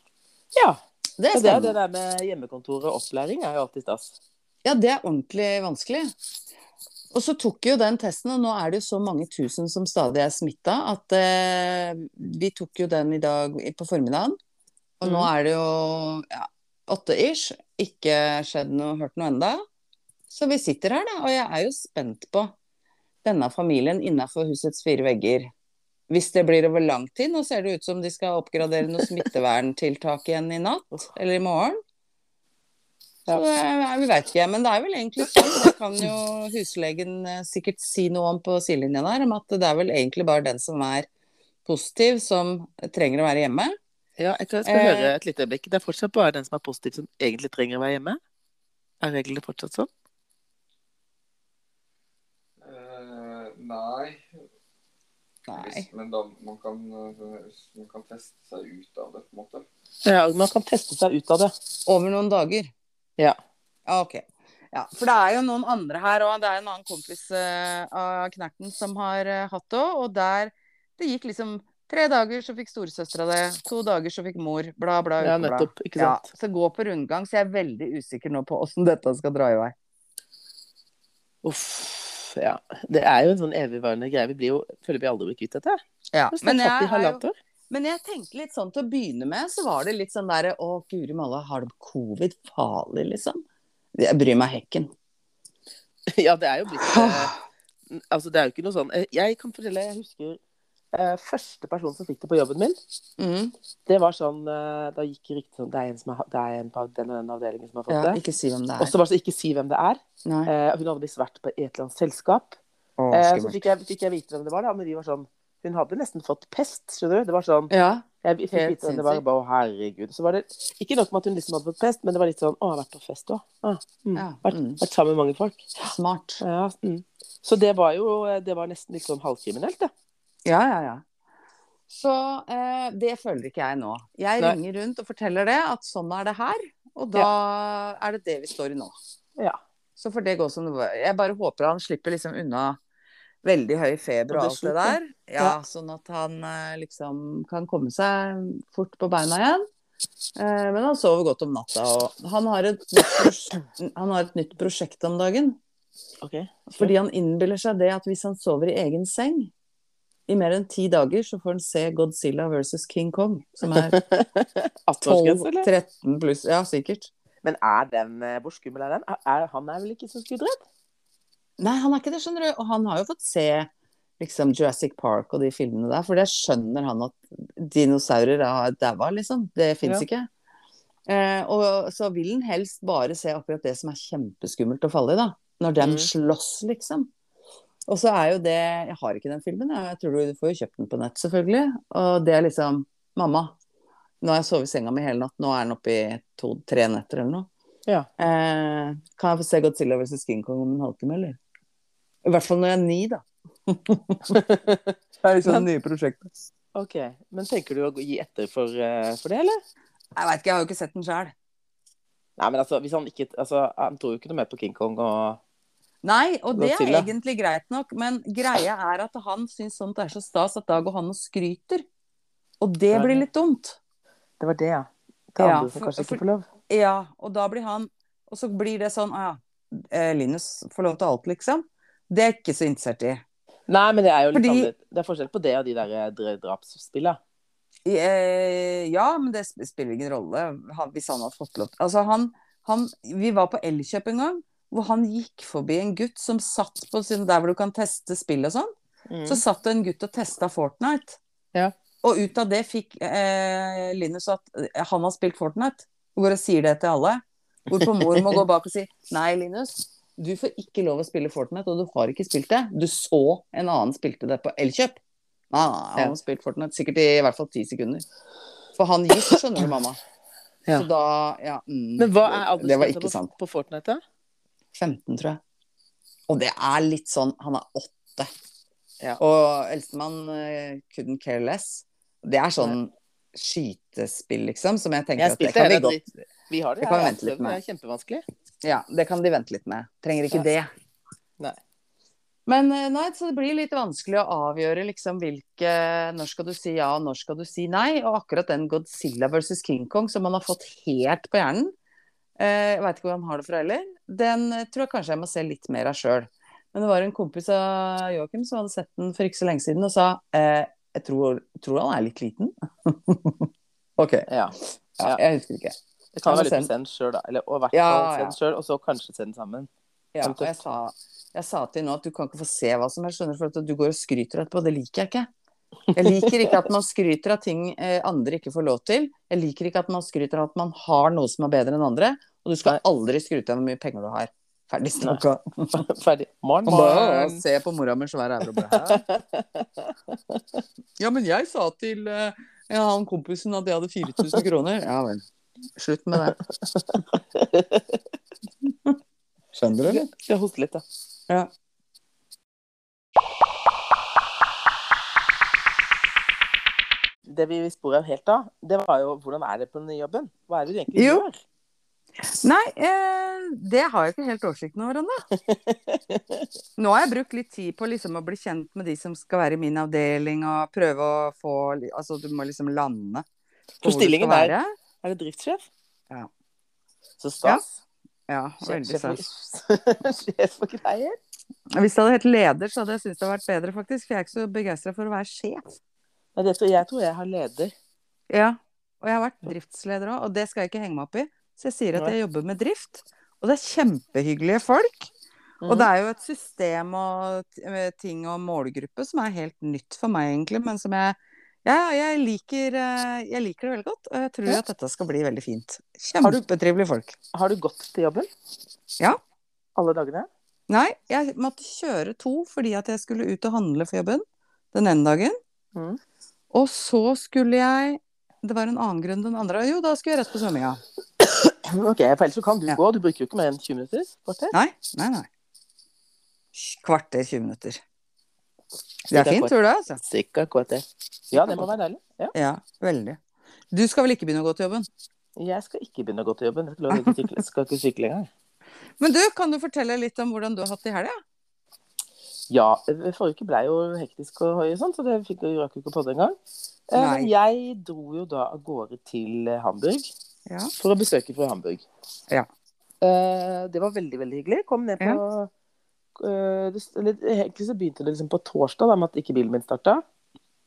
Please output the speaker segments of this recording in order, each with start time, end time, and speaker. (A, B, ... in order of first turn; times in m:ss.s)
0:00.5-0:00.8 A
0:01.2-0:01.8 B
0:01.3-0:04.2 A
0:04.6-0:06.1 B
0:07.1-0:14.4 B
0:15.0-0:19.6 B
0:15.0-0:15.3 A
0:20.3-0:22.5 B
0:23.2-0:25.5 B
0:26.1-0:31.8 B
0:33.3-0:41.1 B
0:41.7-0:43.8 B
0:44.2-0:48.2 A
0:44.7-0:45.1 B
0:49.0-0:49.9 A
0:52.6-0:54.3 C
0:55.5-0:55.9 B
0:55.5-0:59.6 C
1:00.0-1:01.5 A
1:01.9-1:02.7 B
1:03.9-1:19.8 B
1:15.2-1:16.2 A
1:21.4-1:25.8 A
1:26.1-1:33.4 B
1:26.3-1:27.4 A
1:34.0-1:34.9 B
1:36.1-1:37.3 A
1:36.8-1:37.3 B
1:37.9-1:40.4 A
1:40.9-1:42.8 A
1:43.2-1:43.5 B
1:43.9-1:48.2 A
1:47.9-1:48.9 B
1:48.8-1:52.6 A
1:50.2-1:50.5 B
1:53.0-1:53.6 B
1:53.1-2:09.9 A
1:57.7-1:59.2 B
2:04.2-2:04.8 B
2:05.9-2:06.4 B
2:10.4-2:11.0 B
2:11.9-2:18.9 B
2:20.0-2:22.8 B
2:23.4-2:29.6 B
2:24.3-2:25.6 A
2:30.4-2:35.6 B
2:36.2-2:36.9 A
2:36.7-2:39.5 B
2:40.3-2:44.0 B
2:43.7-2:45.7 A
2:45.0-2:47.1 B
2:47.4-2:50.6 A
2:51.6-3:00.3 B
3:01.1-3:07.1 B
3:05.8-3:06.1 A
3:07.9-3:13.6 B
3:14.2-3:17.5 B
3:18.2-3:21.4 B
3:22.2-3:24.4 B
3:24.3-3:25.7 A
3:25.2-3:26.3 B
3:26.8-3:29.6 A
3:30.2-3:31.3 B
3:32.4-3:35.4 A
3:36.0-3:41.8 B
3:36.6-3:37.1 A
3:42.6-3:43.8 B
3:42.9-3:43.2 A
3:44.4-3:46.5 A
3:45.4-3:53.2 B
3:53.7-3:57.2 A
3:54.3-3:54.7 B
3:57.8-4:08.7 B
4:09.1-4:09.4 A
4:09.3-4:11.2 B
4:12.0-4:25.0 B
4:17.8-4:18.4 A
4:25.5-4:28.0 B
4:28.8-4:30.0 B
4:30.7-4:33.3 B
4:32.0-4:34.0 A
4:34.8-4:35.4 B
4:36.3-4:38.3 B
4:39.2-4:46.1 B
4:45.2-4:48.2 A
4:46.8-4:47.6 B
4:48.6-4:50.7 B
4:52.5-5:01.7 B
5:02.4-5:14.3 B
5:14.3-5:15.2 A
5:15.0-5:15.8 B
5:16.2-5:19.7 A
5:16.3-5:16.7 B
5:17.7-5:18.4 B
5:20.1-5:25.3 B
5:20.2-5:20.6 A
5:25.9-5:26.6 A
5:26.0-5:35.8 B
5:35.8-5:37.4 A
5:36.7-5:39.0 B
5:38.7-5:40.6 A
5:41.0-5:45.2 B
5:45.8-5:46.4 B
5:46.7-5:48.0 A
5:48.6-5:49.0 B
5:49.5-5:50.1 B
5:49.8-5:50.8 A
5:57.3-6:01.4 A
6:01.0-6:01.2 B
6:02.2-6:05.2 B
6:05.5-6:06.5 A
6:06.8-6:13.2 B
6:13.8-6:15.7 A
6:13.8-6:14.7 B
6:17.2-6:17.7 A
6:18.3-6:19.2 B
6:18.6-6:21.2 A
6:21.7-6:25.6 B
6:26.4-6:27.7 A
6:28.3-6:35.1 B
6:35.6-6:35.9 A
6:35.7-6:47.2 B
6:47.3-6:48.3 A
6:49.8-6:50.3 A
6:50.7-6:55.4 B
6:56.5-7:00.8 B
7:01.2-7:04.6 A
7:04.5-7:05.3 B
7:06.5-7:07.8 B
7:09.1-7:12.3 A
7:09.1-7:10.0 B
7:11.4-7:11.7 B
7:12.3-7:13.2 B
7:13.7-7:14.9 B
7:15.4-7:18.3 A
7:19.0-7:21.2 B
7:22.5-7:26.4 A
7:26.9-7:30.1 A
7:27.0-7:27.3 B
7:30.5-7:30.7 B
7:30.8-7:31.8 A
7:33.0-7:35.5 A
7:36.2-7:40.0 A